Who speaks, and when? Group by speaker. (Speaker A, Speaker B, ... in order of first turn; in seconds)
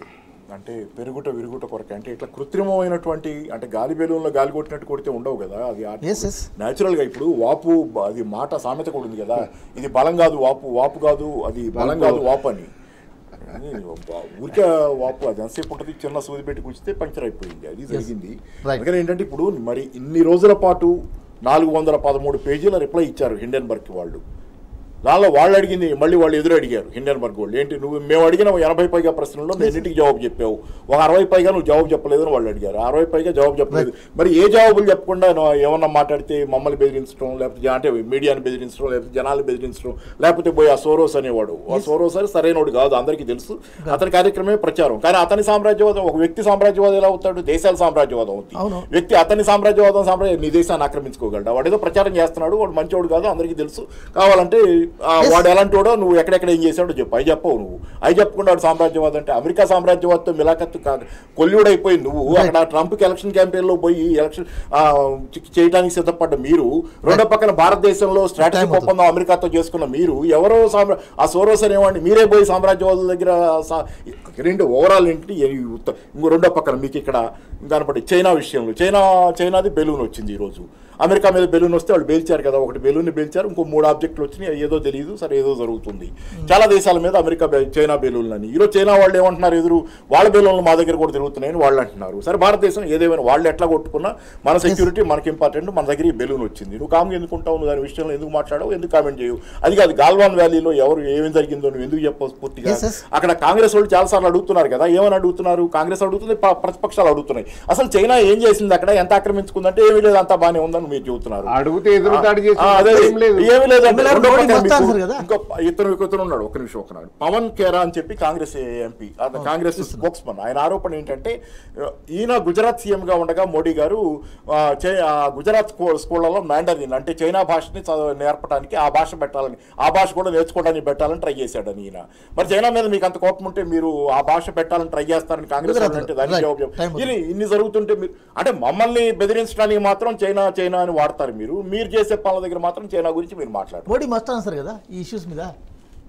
Speaker A: 0.5-12.7, 13.4-20.9, 21.5-24.2, 25.1-111.5, 112.1-124.0, 124.5-143.9
Speaker B: 6.0-6.5, 29.6-29.9, 48.6-48.9, 68.4-68.9, 102.7-103.0, 113.9-115.2, 119.4-120.1, 135.6-137.1, 143.9-145.5
Speaker C: 11.8-12.2, 111.5-113.5